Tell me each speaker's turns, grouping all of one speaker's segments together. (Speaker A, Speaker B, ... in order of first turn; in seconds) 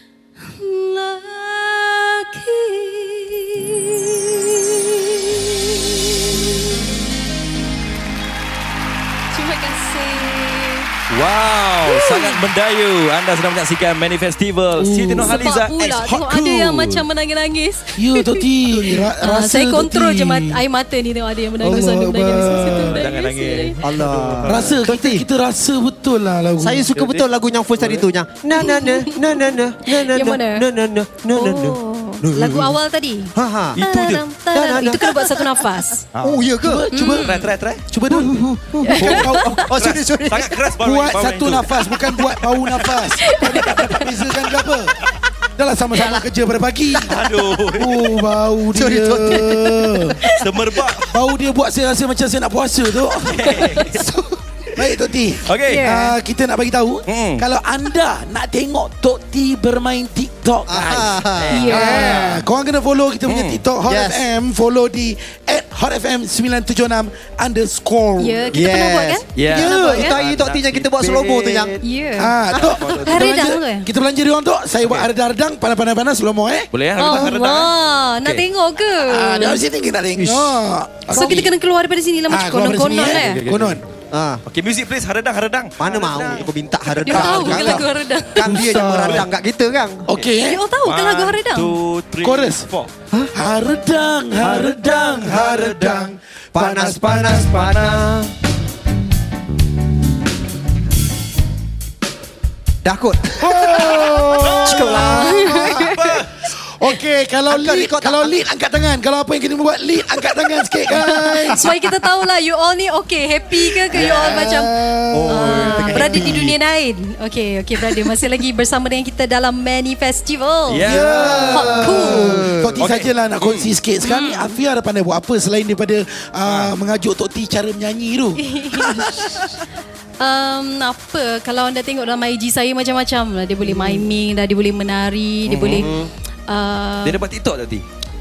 Speaker A: 0.4-6.5, 9.3-10.9, 11.8-12.4, 15.2-23.8, 28.6-29.2, 30.1-30.6, 31.3-36.0, 36.9-37.5, 38.9-39.6, 43.2-44.0, 53.5-53.9, 55.7-56.1, 61.5-62.2, 68.2-70.2, 71.8-73.9, 77.0-79.6, 81.1-83.4, 87.0-88.6, 90.4-91.7, 104.6-106.0, 110.9-114.8, 115.3-120.8, 121.5-122.3, 124.0-124.6, 128.4-129.3, 130.2-135.9, 136.5-137.2
Speaker B: 11.1-17.0, 22.7-24.8, 26.9-28.1, 33.8-34.2, 36.1-36.4, 37.2-37.8, 39.0-41.6, 47.1-47.9, 50.4-51.1, 53.3-54.0, 55.5-55.9, 57.1-57.4, 61.4-62.2, 63.3-63.6, 69.3-71.8, 72.5-73.3, 76.7-77.7, 83.0-83.8, 84.5-86.5, 87.2-87.8, 89.0-89.2, 90.8-92.9, 94.4-96.1, 97.5-98.0, 104.4-106.3, 120.7-121.5, 122.8-123.7, 126.5-126.7, 135.5-135.8, 137.0-137.8
Speaker C: 14.8-15.4, 18.0-20.6, 21.6-23.0, 24.4-26.9, 36.6-39.6, 40.8-45.0, 45.6-47.2, 47.7-50.2, 51.1-54.1, 54.7-68.5, 72.2-77.3, 79.0-81.5, 82.3-83.8, 87.1-87.8, 88.4-89.3, 90.1-90.6, 92.2-92.7, 93.3-97.8, 103.4-105.9, 106.8-111.8, 113.8-116.5, 120.8-129.3
Speaker D: 23.8-25.2, 26.6-32.7, 33.3-33.8, 34.5-35.1, 36.2-36.9, 38.1-40.5, 48.7-50.1, 60.7-62.4, 63.8-64.2, 68.5-71.7, 84.1-84.4, 85.8-90.1, 96.5-98.3, 102.8-103.9, 107.5-108.3, 113.9-114.5, 115.1-116.5, 120.9-122.8, 135.7-136.1